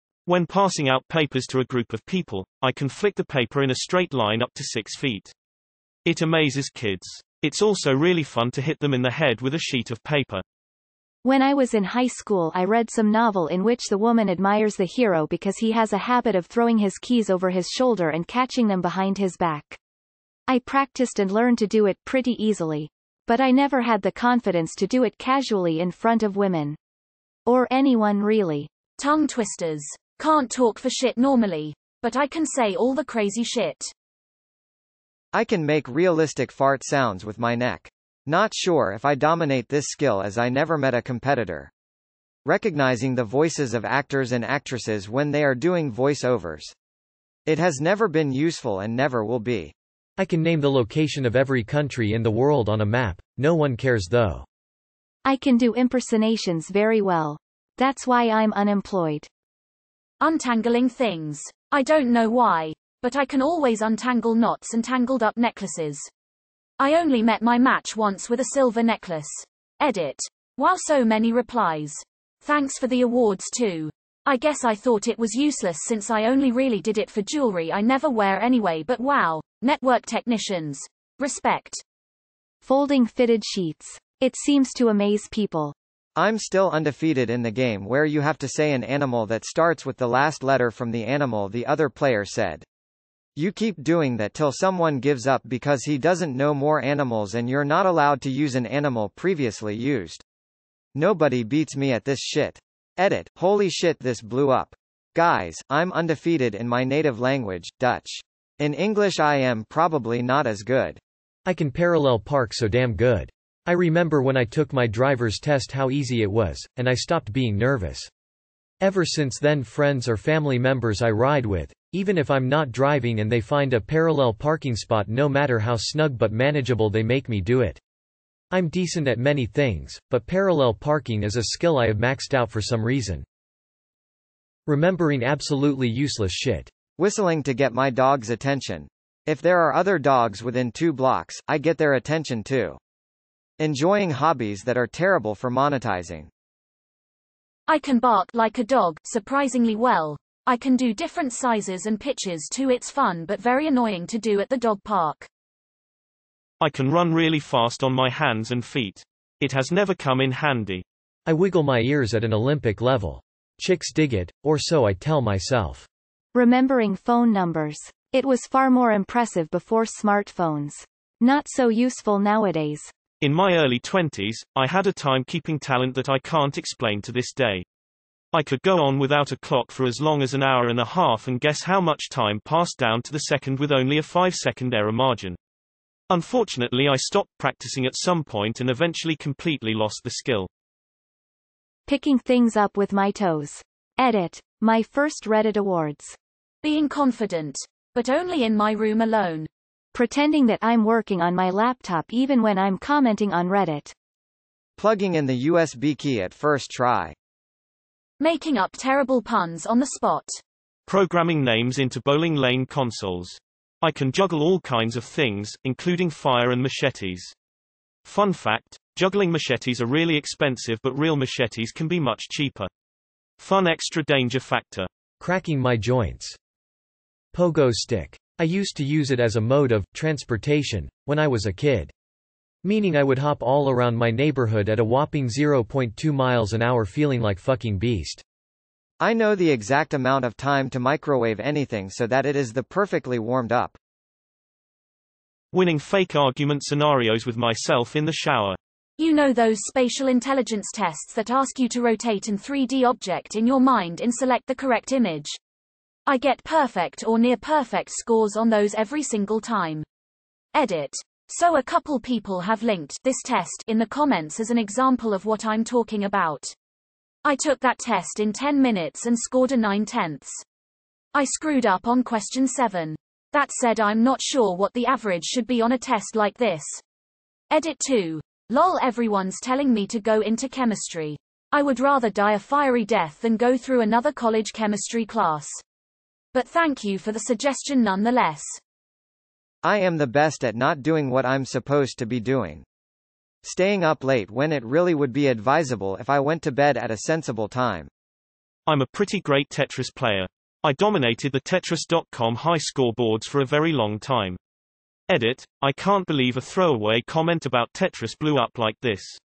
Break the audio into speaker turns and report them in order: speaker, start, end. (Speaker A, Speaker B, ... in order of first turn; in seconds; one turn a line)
Speaker A: 0.3-5.3
Speaker A: 6.1-10.4
Speaker B: 11.2-19.8
Speaker B: 20.5-26.8
Speaker B: 27.5-28.7
Speaker C: 29.0-33.9
Speaker D: 35.3-41.7
Speaker D: 42.5-46.7
Speaker D: 47.5-49.7
Speaker E: 50.2-54.5
Speaker B: 55.2-59.3
Speaker C: 60.2-66.1
Speaker C: 66.8-81.8
Speaker B: 82.6-85.8
Speaker D: 86.2-92.7
Speaker D: 93.4-100.2
Speaker D: 101.0-111.0
Speaker E: 111.5-118.1
Speaker E: 118.8-127.8
Speaker E: 128.5-133.2
Speaker E: 134.7-136.7
Speaker D: 137.0-142.8
Speaker D: 143.6-146.3
Speaker C: 147.7-155.3
Speaker A: 156.6-160.8
Speaker E: 161.3-165.9
Speaker B: 166.3-172.9
Speaker A: 173.2-177.7
Speaker A: 178.3-185.4
Speaker A: 186.1-190.5
Speaker B: 191.9-196.2
Speaker C: 196.6-199.5
Speaker B: 199.9-203.9
Speaker D: 204.8-207.2
Speaker C: 208.2-210.4
Speaker A: 210.9-217.3
Speaker A: 218.0-222.7
Speaker A: 223.4-224.9
Speaker E: 225.2-226.4
Speaker E: 227.3-231.9
Speaker E: 232.6-238.2
Speaker D: 239.0-243.8
Speaker A: 245.5-248.6
Speaker C: 249.0-255.4
Speaker C: 256.1-259.9
Speaker C: 260.5-266.5
Speaker C: 267.2-270.4
Speaker C: 271.1-276.8
Speaker C: 277.5-285.6
Speaker C: 286.3-288.6
Speaker D: 289.6-292.6
Speaker D: 293.4-297.9
Speaker A: 298.7-304.4
Speaker A: 305.1-309.2